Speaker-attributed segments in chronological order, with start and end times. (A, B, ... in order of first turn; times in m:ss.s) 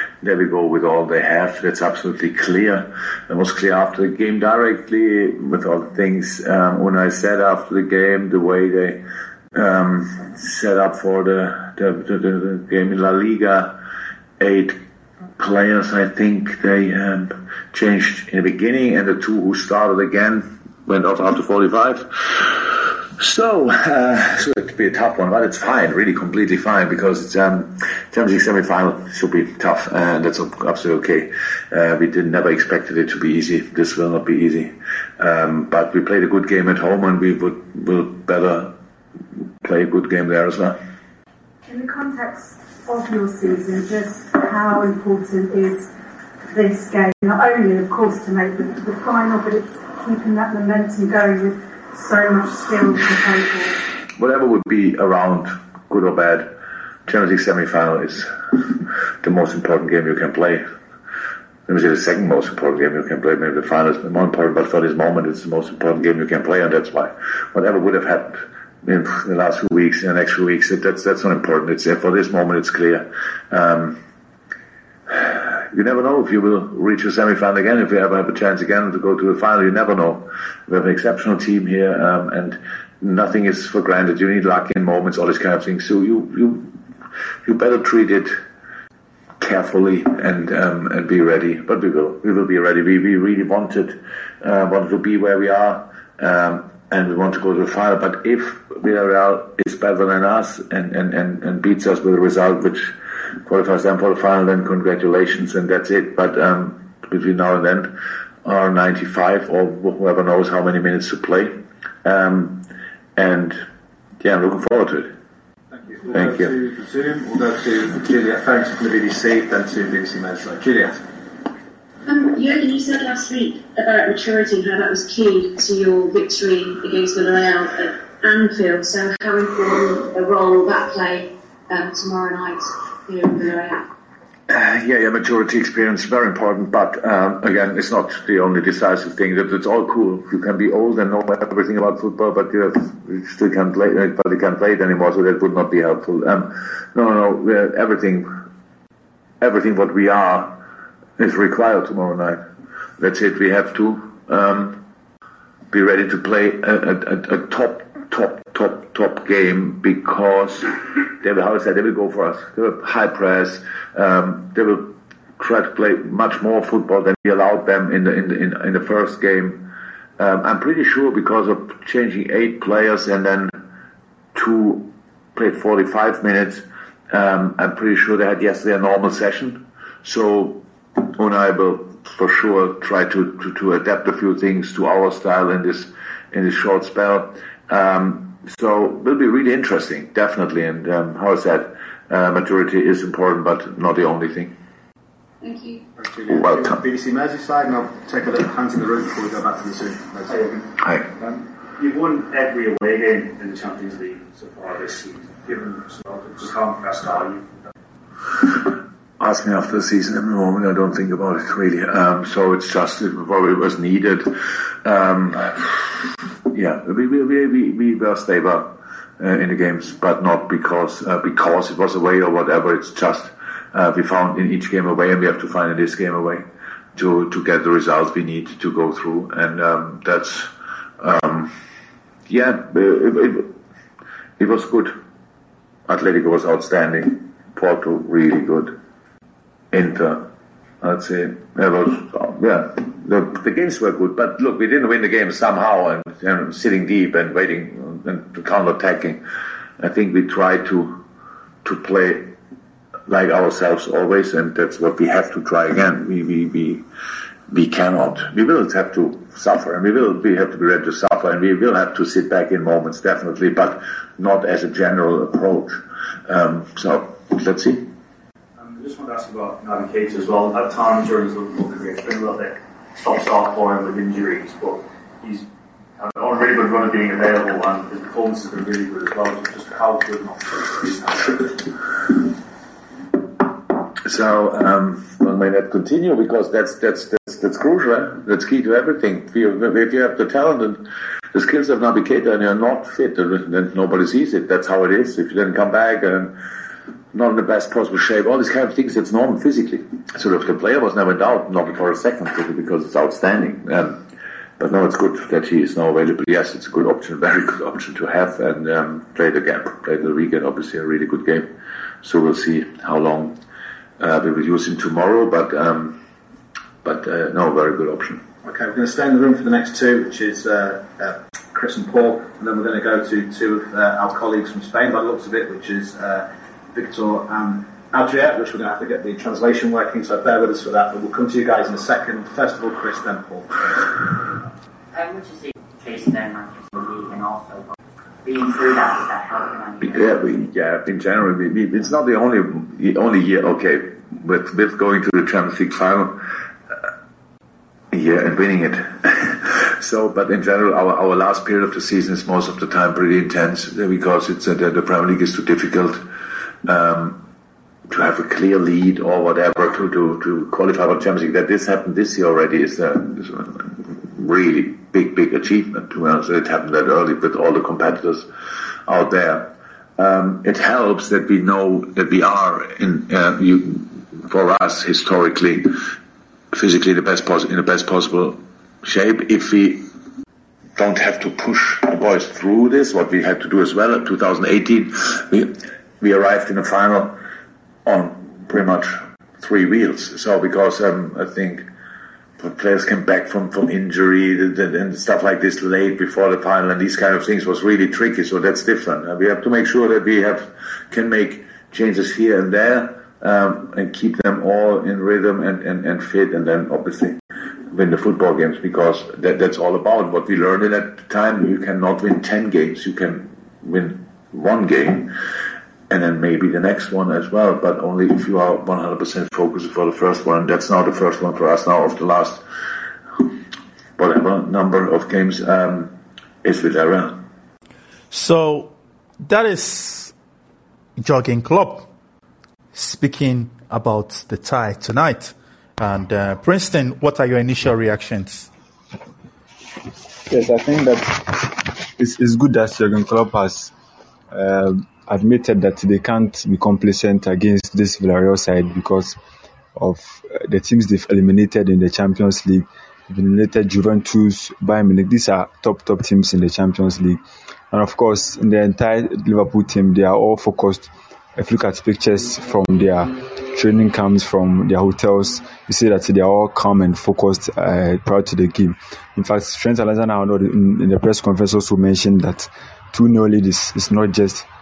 0:00.2-0:09.0 A
0:09.5-0:13.7 A
0:14.4-0:14.8 A
0:15.4-0:38.7 A
0:39.6-0:40.8 A
0:41.6-0:45.9 B
0:46.5-0:53.8 B
0:54.2-0:56.5 A
0:57.1-1:00.6 A
1:01.7-1:14.0 A
1:15.1-1:26.7 A
1:27.4-1:28.3 A
1:29.4-1:42.9 A
1:43.4-1:47.9 A
1:48.4-1:52.6 A
1:53.2-1:53.6 A
1:54.2-1:55.1 A
1:55.7-2:01.0 C
1:56.1-1:56.5 A
2:02.1-2:13.8 D
2:14.5-2:28.3 A
2:29.4-2:30.5 A
2:31.2-2:32.4 A
2:33.0-2:34.8 A
2:35.7-2:44.8 A
2:45.4-2:49.6 A
2:50.2-2:53.5 A
2:54.3-3:14.5 A
3:15.4-3:15.8 D
3:16.0-3:20.6 C
3:16.3-3:16.8 A
3:21.8-3:27.7 E
3:29.2-3:34.3 A
3:34.8-3:38.6 A
3:39.2-3:51.5 A
3:52.3-3:53.5 A
3:54.4-3:54.9 A
3:55.9-3:58.7 A
3:59.7-4:00.2 A
4:00.8-4:09.2 A
4:09.8-4:10.9 A
4:11.6-4:12.3 A
4:13.1-4:16.8 A
4:17.5-4:27.8 A
4:28.6-4:35.4 E
4:36.0-4:41.6 E
4:44.0-4:50.8 A
4:51.3-4:56.3 A
4:57.1-5:04.0 A
5:04.6-5:11.4 A
5:12.0-5:13.3 A
5:14.0-5:15.9 A
5:16.8-5:18.2 A
5:18.4-5:33.9 C
5:34.9-5:37.7 F
5:38.2-5:40.5 F
5:39.8-5:46.1 A
5:47.9-5:56.0 A
5:56.6-5:57.2 A
5:57.9-6:08.2 A
6:08.9-6:09.4 A
6:10.0-6:15.7 A
6:16.5-6:19.8 A
6:20.8-6:25.5 A
6:26.0-6:27.1 A
6:27.8-6:31.6 A
6:32.4-6:47.2 A
6:47.7-6:55.1 A
6:55.9-7:02.4 A
7:04.0-7:05.9 A
7:06.4-7:07.2 A
7:08.1-7:10.1 G
7:11.0-7:11.9 G
7:12.7-7:18.5 G
7:20.3-7:23.7 H
7:24.3-7:29.2 H
7:29.8-7:54.5 H